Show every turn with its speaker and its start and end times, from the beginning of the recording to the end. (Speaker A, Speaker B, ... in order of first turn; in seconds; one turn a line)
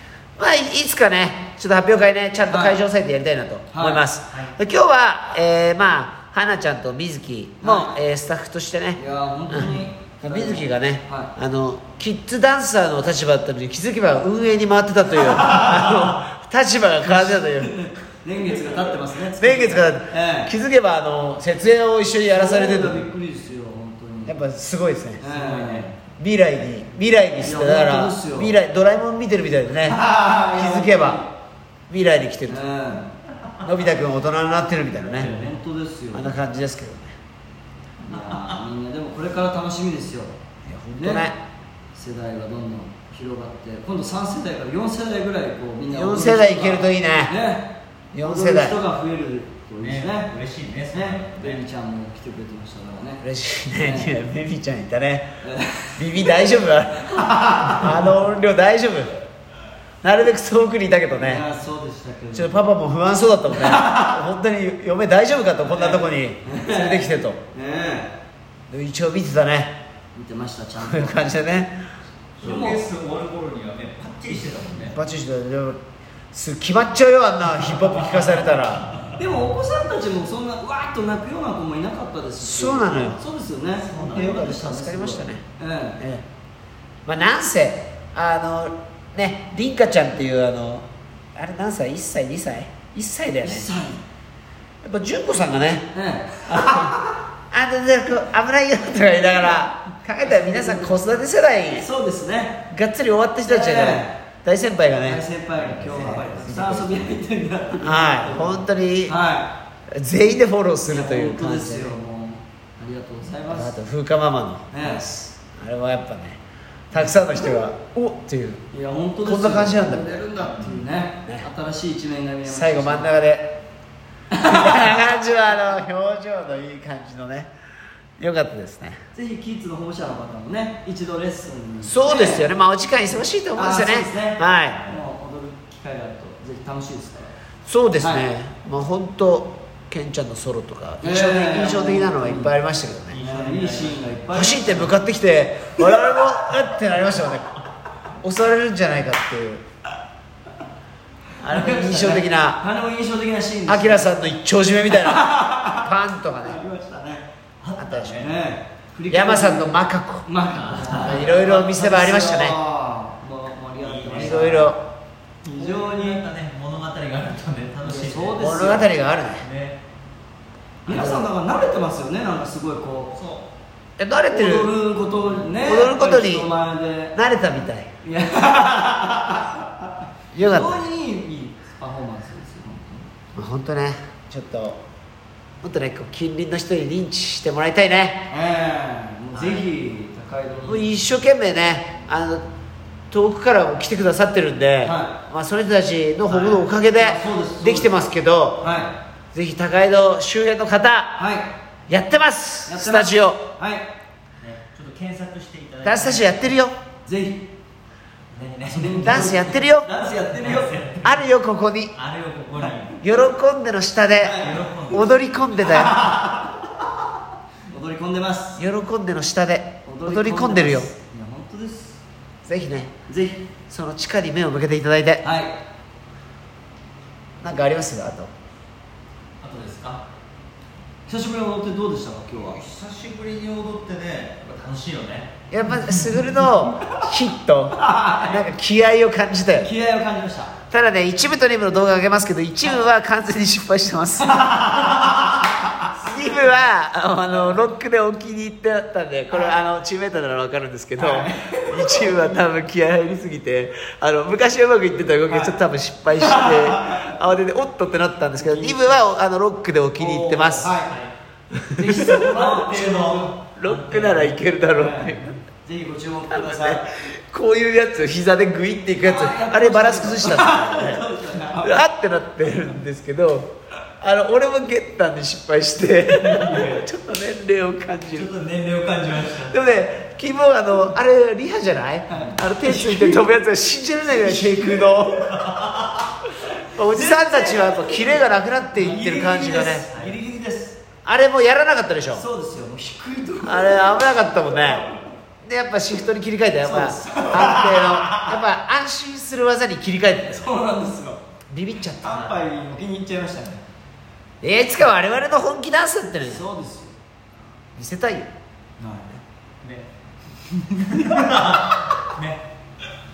Speaker A: 0.4-17.8
Speaker B: 2.5-2.8
Speaker B: 3.7-4.0
Speaker B: 7.6-8.0
Speaker B: 9.0-11.3
Speaker B: 17.1-20.5
Speaker A: 19.4-23.0
Speaker B: 22.2-24.4
Speaker A: 24.3-25.3
Speaker B: 25.2-25.9
Speaker C: 25.3-25.9
Speaker A: 26.2-31.2
Speaker B: 27.4-28.5
Speaker B: 29.8-31.3
Speaker A: 31.9-32.6
Speaker B: 32.5-33.1
Speaker C: 33.4-33.8
Speaker A: 33.6-35.3
Speaker B: 35.2-36.4
Speaker C: 35.2-35.5
Speaker A: 36.1-37.1
Speaker B: 38.0-40.3
Speaker C: 38.1-38.6
Speaker A: 40.6-41.4
Speaker B: 41.0-41.3
Speaker B: 41.9-47.7
Speaker A: 45.9-47.4
Speaker A: 48.1-48.8
Speaker B: 48.2-50.3
Speaker C: 49.8-51.6
Speaker B: 50.9-53.2
Speaker A: 53.2-55.3
Speaker B: 53.8-54.1
Speaker B: 55.4-56.3
Speaker A: 56.0-59.1
Speaker B: 57.1-58.0
Speaker A: 60.0-61.5
Speaker B: 61.1-62.6
Speaker A: 62.3-67.4
Speaker B: 63.5-64.2
Speaker B: 65.7-68.1
Speaker A: 68.7-69.7
Speaker B: 70.1-71.2
Speaker A: 70.8-71.8
Speaker C: 72.4-75.0
Speaker B: 72.4-72.9
Speaker A: 74.9-75.8
Speaker A: 76.3-78.9
Speaker C: 78.0-79.2
Speaker B: 79.2-86.0
Speaker A: 82.4-83.2
Speaker C: 83.8-84.3
Speaker A: 84.0-85.4
Speaker A: 86.0-86.2
Speaker A: 87.0-93.7
Speaker B: 93.4-94.0
Speaker A: 94.8-95.9
Speaker B: 95.9-97.1
Speaker A: 96.5-101.9
Speaker B: 100.2-101.0
Speaker B: 101.7-102.6
Speaker A: 102.7-105.2
Speaker B: 103.5-104.1
Speaker B: 105.0-109.5
Speaker C: 105.6-106.0
Speaker A: 105.8-107.0
Speaker A: 107.8-109.1
Speaker A: 109.9-112.0
Speaker B: 110.9-113.8
Speaker A: 113.5-116.4
Speaker B: 114.7-115.0
Speaker A: 116.9-118.6
Speaker B: 118.7-123.1
Speaker A: 119.2-120.5
Speaker A: 122.5-123.6
Speaker B: 124.3-125.1
Speaker A: 124.4-127.5
Speaker A: 128.2-129.0
Speaker B: 129.1-132.5
Speaker A: 131.8-134.8
Speaker B: 133.6-137.3
Speaker A: 137.7-143.2
Speaker B: 138.0-138.3
Speaker B: 141.0-142.6
Speaker C: 143.1-144.0
Speaker B: 143.2-144.9
Speaker A: 144.3-147.6
Speaker A: 148.2-149.6
Speaker A: 151.4-152.6
Speaker B: 151.4-154.1
Speaker A: 153.7-156.6
Speaker B: 154.9-157.2
Speaker C: 157.6-158.3
Speaker A: 157.8-158.3
Speaker B: 158.2-164.8
Speaker A: 159.1-160.3
Speaker C: 160.5-161.2
Speaker A: 160.9-162.6
Speaker C: 163.8-164.6
Speaker A: 164.1-164.8
Speaker C: 165.4-168.5
Speaker B: 165.5-166.2
Speaker B: 167.8-168.9
Speaker A: 168.4-169.4
Speaker C: 169.4-169.8
Speaker A: 170.9-171.3
Speaker B: 170.9-173.1
Speaker C: 173.1-173.5
Speaker A: 174.0-174.7
Speaker B: 174.3-177.2
Speaker A: 175.6-176.5
Speaker A: 177.2-177.9
Speaker B: 178.0-183.1
Speaker A: 180.3-180.8
Speaker A: 183.3-184.8
Speaker A: 185.6-188.3
Speaker B: 188.3-190.9
Speaker C: 189.3-189.7
Speaker A: 190.7-192.5
Speaker A: 193.1-198.7
Speaker B: 194.8-195.1
Speaker B: 196.3-197.9
Speaker B: 198.6-198.9
Speaker A: 199.3-201.2
Speaker B: 201.2-201.5
Speaker A: 201.9-203.4
Speaker B: 202.7-203.9
Speaker C: 204.4-206.5
Speaker A: 205.8-206.8
Speaker B: 207.1-207.4
Speaker C: 208.3-209.2
Speaker B: 208.7-210.7
Speaker A: 209.0-209.9
Speaker C: 210.3-211.2
Speaker A: 211.0-211.9
Speaker C: 211.9-213.0
Speaker A: 213.0-216.1
Speaker B: 214.2-214.7
Speaker C: 214.4-216.0
Speaker B: 216.0-216.5
Speaker B: 217.7-218.6
Speaker A: 218.6-220.9
Speaker B: 219.9-222.0
Speaker A: 222.4-222.9
Speaker B: 223.1-223.5
Speaker A: 223.7-225.2
Speaker B: 225.2-225.6
Speaker A: 227.4-228.3
Speaker C: 229.4-230.0
Speaker B: 231.1-232.6
Speaker C: 232.4-236.3
Speaker A: 235.5-239.7
Speaker B: 237.8-238.5
Speaker B: 239.6-240.5
Speaker A: 240.7-244.6
Speaker B: 244.3-245.9
Speaker C: 244.7-245.1
Speaker A: 246.0-260.7
Speaker B: 251.0-252.4
Speaker B: 255.3-255.6
Speaker B: 256.2-257.1
Speaker B: 258.4-259.0
Speaker C: 260.0-261.1
Speaker B: 260.0-260.9
Speaker A: 261.6-262.3
Speaker B: 261.7-263.3
Speaker C: 262.1-264.6
Speaker A: 263.6-265.4
Speaker B: 264.7-266.9
Speaker A: 266.3-271.1
Speaker B: 269.0-271.8
Speaker A: 271.6-278.3
Speaker C: 276.1-276.8
Speaker C: 278.1-279.6
Speaker A: 279.3-285.6
Speaker B: 282.1-283.2
Speaker C: 284.2-286.1
Speaker A: 286.7-289.9
Speaker B: 286.9-290.8
Speaker C: 289.9-290.2
Speaker A: 291.1-292.2
Speaker B: 292.1-295.0
Speaker A: 293.4-294.9
Speaker A: 295.4-300.5
Speaker B: 296.6-298.4
Speaker B: 300.3-301.2
Speaker A: 301.5-302.4
Speaker B: 302.0-303.6
Speaker A: 304.4-306.4
Speaker B: 306.2-307.0
Speaker A: 307.8-308.3
Speaker B: 308.8-309.2
Speaker B: 310.5-311.4
Speaker C: 310.7-312.4